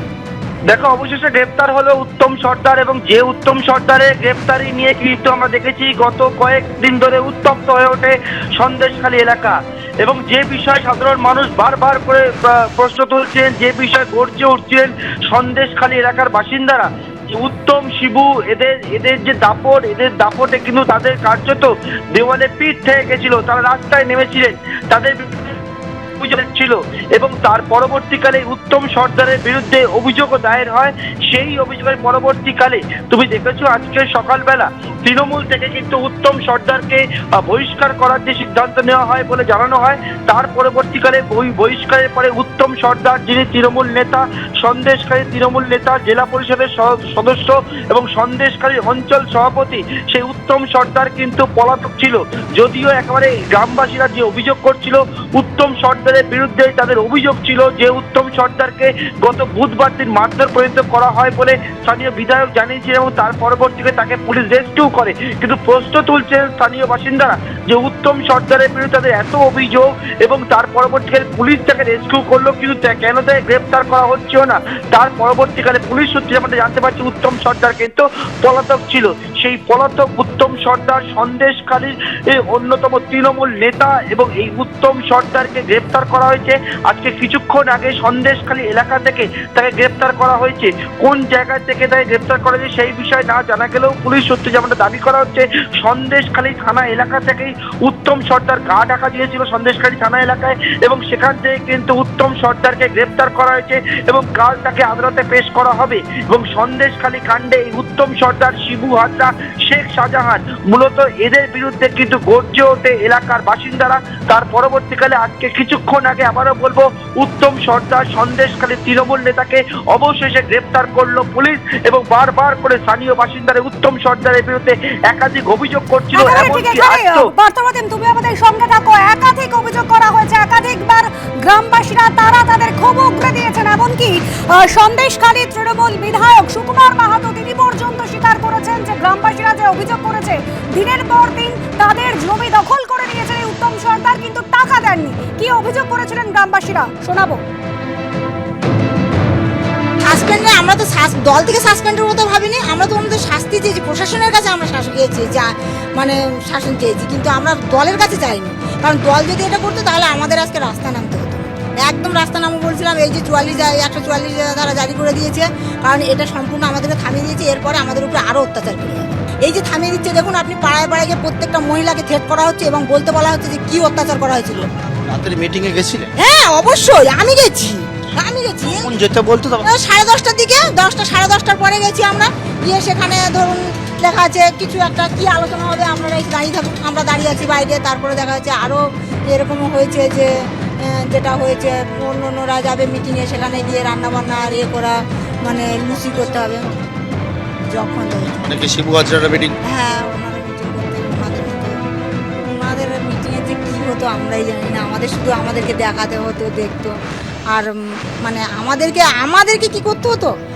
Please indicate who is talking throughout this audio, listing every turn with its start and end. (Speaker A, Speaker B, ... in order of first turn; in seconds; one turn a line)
Speaker A: 0.7-25.5
Speaker A: 26.2-127.3
Speaker B: 126.1-147.4
Speaker C: 150.0-174.7
Speaker D: 175.1-176.1
Speaker C: 176.2-178.9
Speaker D: 178.8-179.7
Speaker C: 179.7-190.3
Speaker C: 190.9-196.8
Speaker C: 197.7-198.5
Speaker D: 198.4-199.6
Speaker C: 199.7-201.8
Speaker C: 202.5-206.9
Speaker C: 207.5-210.3